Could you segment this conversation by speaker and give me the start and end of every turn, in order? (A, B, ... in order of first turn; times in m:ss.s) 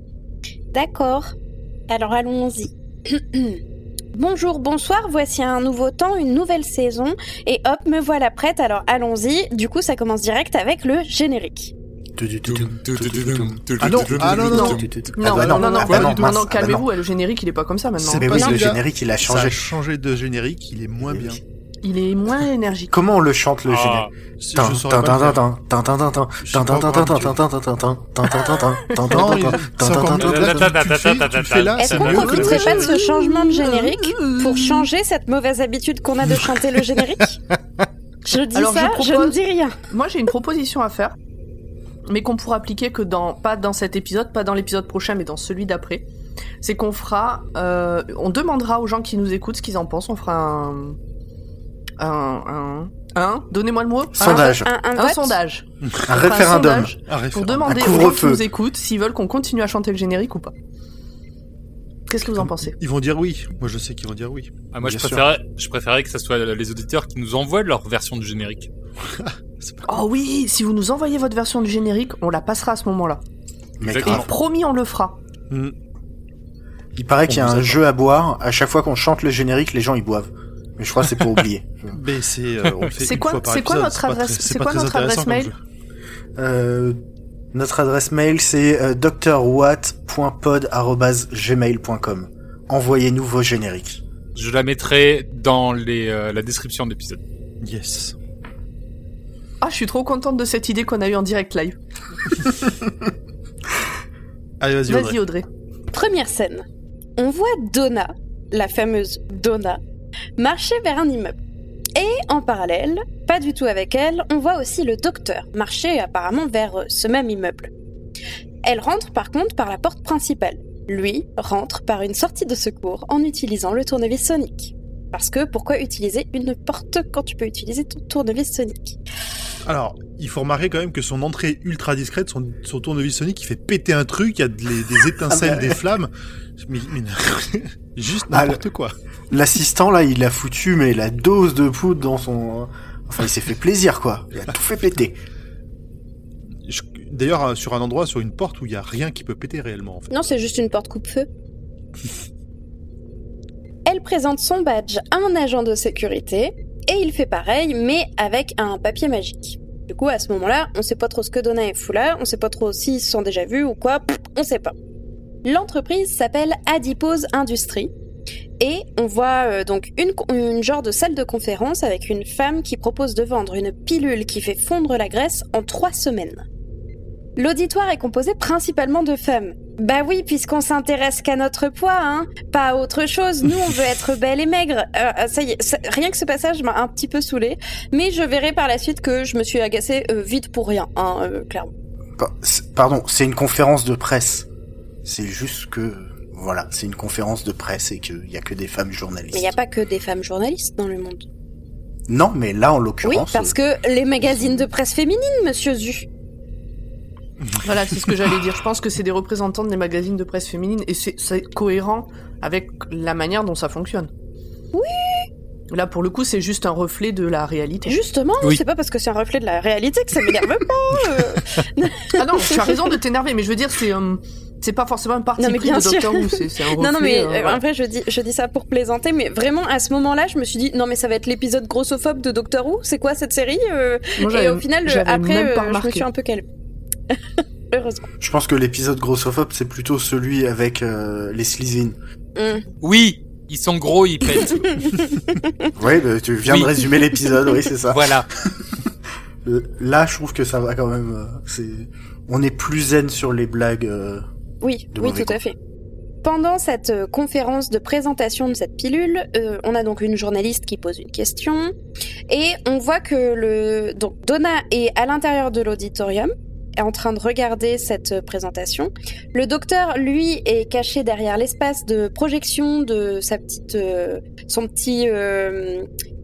0:00.7-0:01.3 A
0:01.9-0:03.6 A
0:04.1-0:11.7 A
0:12.2-0:16.9 B
0:12.4-0:14.9 C
0:13.8-0:14.8 D
0:14.5-0:18.4 E
0:15.3-0:16.3 D
0:18.0-0:21.4 D
0:18.1-0:19.6 B
0:21.0-0:21.4 B
0:21.8-0:23.0 E
0:22.9-0:30.7 B
0:23.7-0:24.1 C
0:24.4-0:25.4 D
0:26.4-0:27.4 D
0:29.1-0:32.8 D
0:30.1-0:32.7 C
0:31.8-0:37.4 A
0:32.0-0:34.9 E
0:36.3-0:36.6 D
0:38.2-0:39.8 A
0:38.5-0:39.4 E
0:39.9-0:41.2 E
0:42.1-0:46.0 E
0:46.6-0:51.0 E
0:52.0-1:00.5 E
0:54.1-0:54.7 B
0:54.2-0:55.4 A
0:55.8-0:56.1 D
0:56.0-0:57.0 B
0:57.0-0:57.8 D
0:57.6-0:58.4 B
1:02.1-1:02.8 E
1:02.4-1:04.5 D
1:04.7-1:08.7 C
1:04.8-1:05.2 B
1:09.0-1:09.9 D
1:09.9-1:13.2 E
1:13.8-1:14.3 B
1:13.8-1:14.3 C
1:14.0-1:15.2 E
1:17.0-1:22.0 B
1:17.3-1:17.8 D
1:21.9-1:25.6 D
1:23.0-1:25.5 E
1:26.4-1:27.0 B
1:27.5-1:34.0 B
1:34.3-1:37.2 C
1:37.6-1:38.2 D
1:39.6-1:41.8 E
1:44.6-1:45.2 D
1:44.9-1:45.5 E
1:45.9-1:46.6 A
1:47.2-1:49.8 A
1:50.4-1:51.4 A
1:51.9-1:57.7 A
1:58.6-2:09.0 A
2:09.6-2:18.9 D
2:15.3-2:15.8 B
2:18.3-2:18.6 B
2:19.3-2:25.2 B
2:26.6-2:30.1 D
2:30.1-2:31.3 A
2:33.8-2:44.7 A
2:45.4-2:47.9 A
2:48.6-2:56.4 A
2:57.4-3:11.7 A
3:12.2-3:14.5 B
3:15.0-3:19.5 B
3:19.3-3:21.2 A
3:22.1-3:23.6 B
3:23.0-3:26.1 A
3:27.4-3:28.3 D
3:27.6-3:34.1 E
3:34.7-3:35.3 A
3:35.7-3:38.0 E
3:37.8-3:42.7 A
3:42.1-3:47.6 E
3:45.4-3:56.4 A
3:54.2-3:56.0 E
3:57.7-3:58.1 A
3:58.2-4:02.0 B
4:02.4-4:02.6 A
4:02.8-4:04.9 C
4:04.8-4:05.7 A
4:05.7-4:08.6 B
4:06.4-4:06.9 C
4:07.9-4:08.3 C
4:09.4-4:14.2 B
4:14.6-4:15.6 A
4:14.9-4:15.4 B
4:16.2-4:21.7 A
4:22.3-4:35.9 A